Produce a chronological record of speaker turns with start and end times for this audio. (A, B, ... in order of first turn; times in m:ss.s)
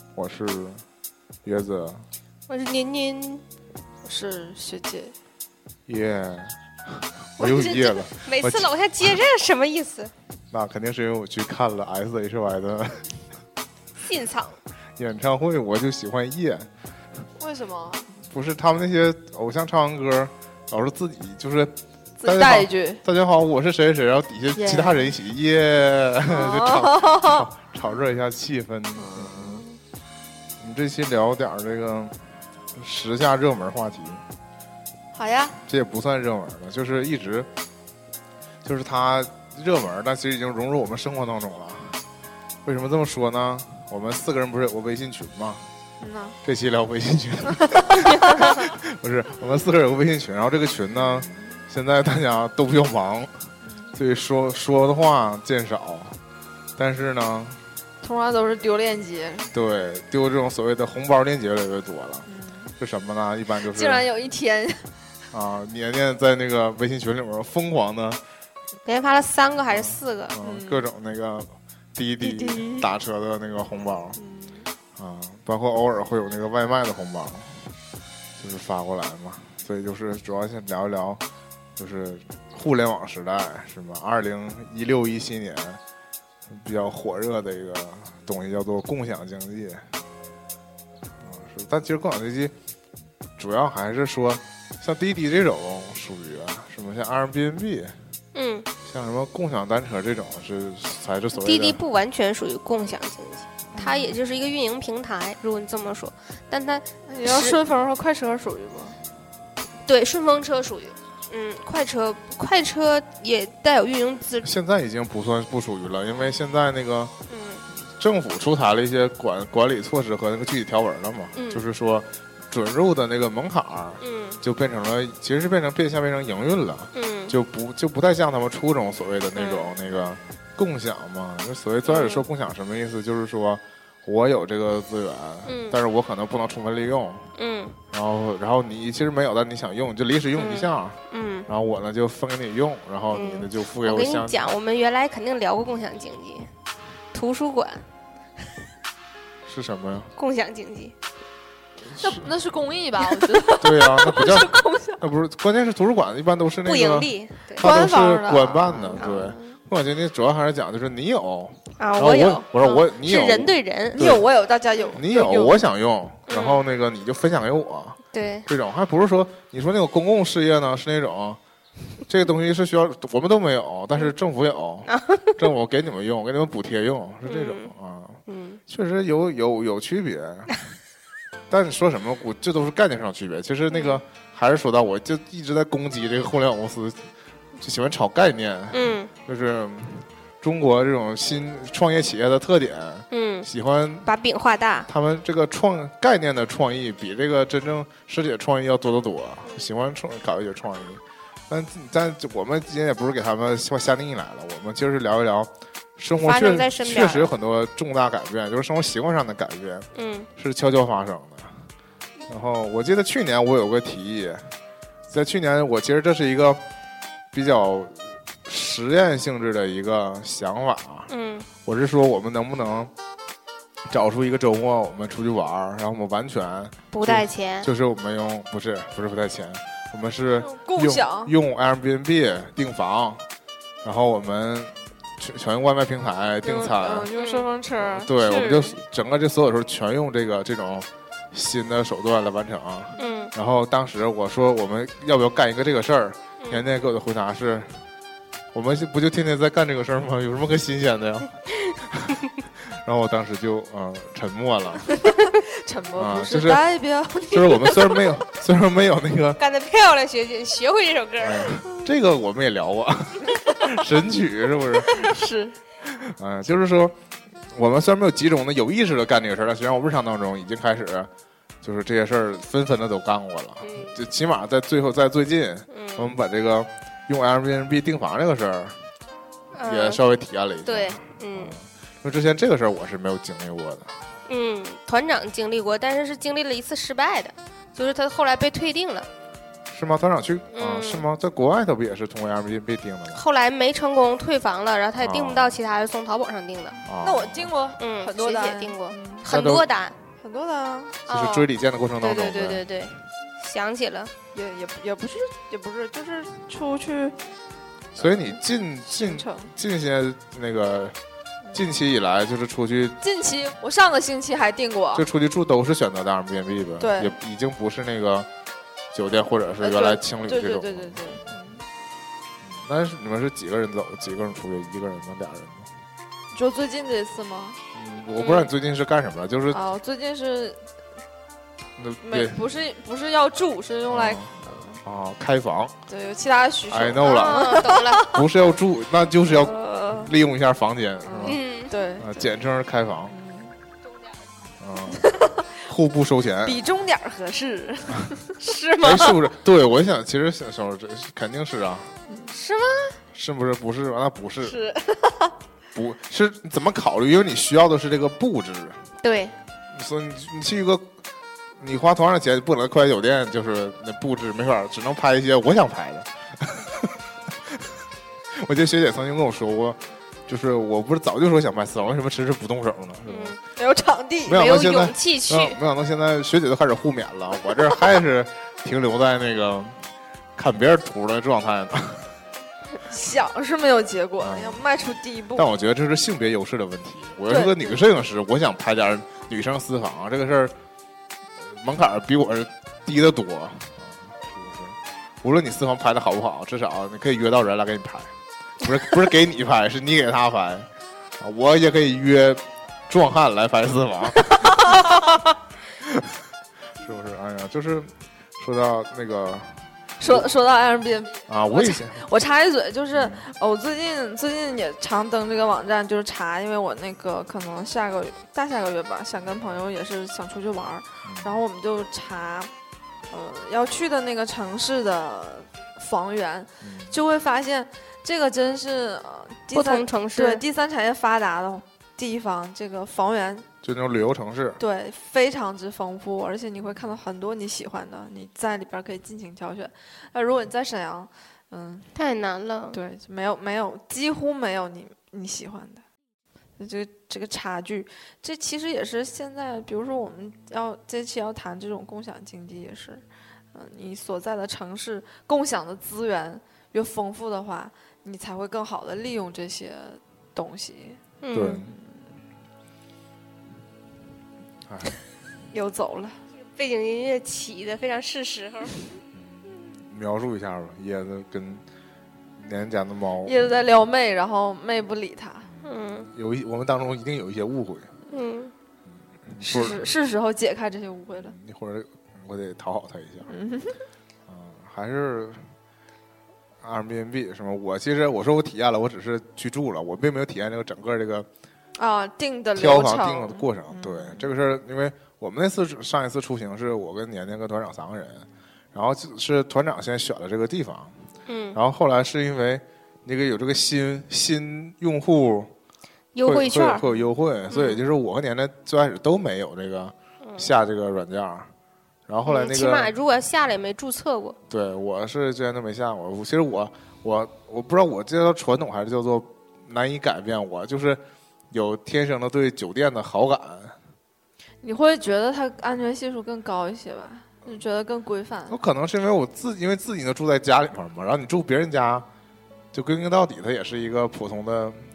0:00.1-0:00.8 A
0:01.4-0:02.0 A
0:02.5-0:03.4 B
0:04.0-0:05.1 C
0:05.9-0:09.1 A
0:07.4-0:10.1 B
0:10.5-0:13.1 A
0:14.0-0:14.6 B
0:15.0-0:16.7 A
0:17.4-0:18.1 C
0:18.2-0:29.6 A
0:22.2-0:23.0 C
0:24.5-0:25.1 C
0:26.3-0:27.5 C
0:28.9-0:29.8 C
0:30.6-0:32.2 A
0:32.7-0:34.2 A
0:35.1-0:35.6 C
0:35.6-0:37.5 A
0:38.6-0:42.0 A
0:42.6-0:45.6 A
0:46.0-0:46.4 C
0:46.4-0:56.2 A
0:47.6-0:48.6 C
0:51.0-0:51.6 C
0:53.6-0:53.9 C
0:56.8-0:57.6 A
0:58.0-0:59.5 C
0:59.5-1:02.3 A
1:02.3-1:02.7 C
1:02.8-1:04.0 A
1:03.6-1:04.9 C
1:05.3-1:08.2 A
1:08.8-1:10.3 B
1:09.7-1:14.2 A
1:10.4-1:10.9 C
1:12.2-1:12.9 C
1:14.2-1:14.7 C
1:15.0-1:17.7 A
1:18.4-1:21.2 A
1:21.8-1:25.8 A
1:26.5-1:29.8 A
1:31.2-1:32.5 A
1:33.4-1:37.9 A
1:38.3-1:38.7 B
1:38.8-1:41.8 A
1:41.3-1:47.6 B
1:43.7-1:44.2 A
1:47.1-1:49.0 C
1:49.8-1:54.5 B
1:54.4-1:57.1 A
1:57.3-1:57.6 B
1:57.8-2:17.3 A
2:01.3-2:01.6 B
2:04.0-2:04.4 B
2:06.9-2:07.3 B
2:09.4-2:09.7 B
2:11.8-2:12.2 B
2:15.4-2:15.8 B
2:17.4-2:17.8 B
2:17.9-2:24.5 A
2:20.4-2:21.5 B
2:23.1-2:26.5 B
2:27.1-2:27.8 B
2:29.4-2:30.1 A
2:30.2-2:30.9 B
2:31.9-2:32.3 A
2:32.0-2:35.0 C
2:33.6-2:44.3 A
2:36.6-2:37.6 B
2:37.6-2:39.2 C
2:39.0-2:39.4 B
2:41.8-2:44.0 B
2:44.0-2:45.6 C
2:44.9-2:51.4 A
2:46.3-2:46.6 B
2:48.1-2:48.5 B
2:52.1-3:00.5 A
2:54.9-2:55.4 B
2:57.2-2:57.7 B
2:58.3-2:58.6 B
3:01.5-3:07.0 A
3:03.7-3:04.0 B
3:07.6-3:14.1 A
3:08.7-3:09.1 B
3:13.1-3:13.5 B
3:14.0-3:14.9 B
3:14.8-3:31.7 A
3:26.2-3:27.3 B
3:29.9-3:30.3 B
3:32.3-3:34.5 A
3:35.1-3:36.6 A
3:37.3-3:41.1 A
3:41.1-3:41.5 B
3:41.6-3:42.9 A
3:43.9-3:53.2 A
3:46.9-3:47.7 B
3:50.5-3:51.3 C
3:53.8-3:57.1 A
3:56.4-3:58.2 C
3:56.5-3:57.5 B
3:57.8-4:07.8 A
3:58.2-3:58.8 B
4:03.0-4:03.3 B
4:06.4-4:06.7 B
4:08.5-4:14.9 A
4:15.3-4:18.1 C
4:16.0-4:16.6 A
4:17.3-4:19.4 A
4:19.4-4:21.5 B
4:21.2-4:25.0 A
4:23.3-4:23.8 C
4:24.8-4:25.6 C
4:25.8-4:27.0 A
4:27.5-4:31.1 A
4:31.6-4:38.8 A
4:33.6-4:34.0 B
4:35.7-4:36.1 B
4:39.5-4:40.0 B
4:39.6-4:43.9 A
4:40.6-4:41.6 B
4:44.3-4:49.1 B
4:49.7-4:53.2 A
4:50.5-4:51.0 B
4:53.1-4:56.8 B
4:55.0-4:55.6 A
4:56.8-4:57.5 A
4:57.0-4:59.2 C
4:57.8-4:59.9 B
4:59.3-4:59.6 A
5:00.2-5:01.0 C
5:01.1-5:02.7 A
5:01.1-5:01.5 B
5:02.0-5:04.1 B
5:04.3-5:07.2 C
5:07.9-5:11.0 A
5:08.0-5:09.5 C
5:11.5-5:13.0 A
5:13.0-5:15.1 C
5:14.9-5:18.3 A
5:16.8-5:17.2 C
5:18.9-5:21.3 A
5:19.6-5:21.6 C
5:22.4-5:25.7 A
5:26.3-5:27.6 C
5:27.7-5:29.6 A
5:29.5-5:30.6 C
5:31.8-5:32.4 A
5:32.0-5:34.8 C
5:33.9-5:34.3 A
5:34.8-5:35.8 A
5:35.9-5:38.3 C
5:36.7-5:41.4 A
5:37.0-5:38.0 B
5:39.3-5:40.1 C
5:41.0-5:42.1 C
5:41.2-5:41.7 B
5:42.0-5:43.1 A
5:43.1-5:43.5 C
5:44.6-5:46.6 A
5:44.9-5:45.5 C
5:46.4-5:48.4 C
5:48.4-5:49.2 B
5:48.8-5:51.9 A
5:52.1-5:52.3 C
5:52.3-5:53.0 B
5:53.1-5:54.6 A
5:54.4-5:55.3 C
5:55.7-5:58.8 A
5:59.0-5:59.3 B
5:59.7-6:00.9 A
6:01.6-6:07.7 A
6:08.3-6:13.4 A
6:13.0-6:13.4 B
6:13.6-6:14.4 C
6:14.2-6:19.8 A
6:14.3-6:15.6 B
6:20.4-6:22.1 A
6:22.8-6:25.5 C
6:24.2-6:24.6 A
6:25.3-6:30.5 A
6:27.3-6:27.8 C
6:31.4-6:40.7 A
6:41.2-6:45.2 A
6:44.2-6:44.9 C
6:45.8-6:46.2 A
6:46.8-6:49.5 A
6:50.0-7:02.5 C
6:51.3-6:52.0 A
6:52.9-6:53.3 A
7:01.0-7:01.4 A
7:03.1-7:13.5 C
7:06.6-7:06.9 A
7:09.5-7:10.4 B
7:13.6-7:14.6 A
7:14.6-7:21.9 C
7:21.9-7:22.8 B
7:22.7-7:25.8 C
7:26.6-7:41.0 C
7:41.2-7:41.6 B
7:41.3-7:41.7 A
7:41.7-7:42.0 C
7:44.6-7:44.9 A
7:45.5-7:46.2 C
7:46.5-7:48.8 B
7:49.1-7:51.6 A
7:52.4-7:53.3 A
7:53.2-7:55.5 C
7:55.5-7:57.9 A
7:55.6-7:56.1 B
7:58.1-7:58.5 B
7:59.3-7:59.9 A
7:59.4-8:01.4 C
8:01.2-8:03.3 A
8:03.3-8:03.8 C
8:04.3-8:05.5 A
8:06.6-8:11.3 A
8:11.8-8:14.3 C
8:12.6-8:20.9 A
8:21.3-8:21.6 B
8:21.5-8:25.5 A
8:26.1-8:26.8 B
8:26.2-8:31.5 A
8:27.5-8:27.8 B
8:32.1-8:32.9 A
8:32.2-8:34.4 B
8:34.5-8:43.8 A
8:44.6-8:48.6 C
8:48.5-8:52.1 A
8:52.7-8:54.8 A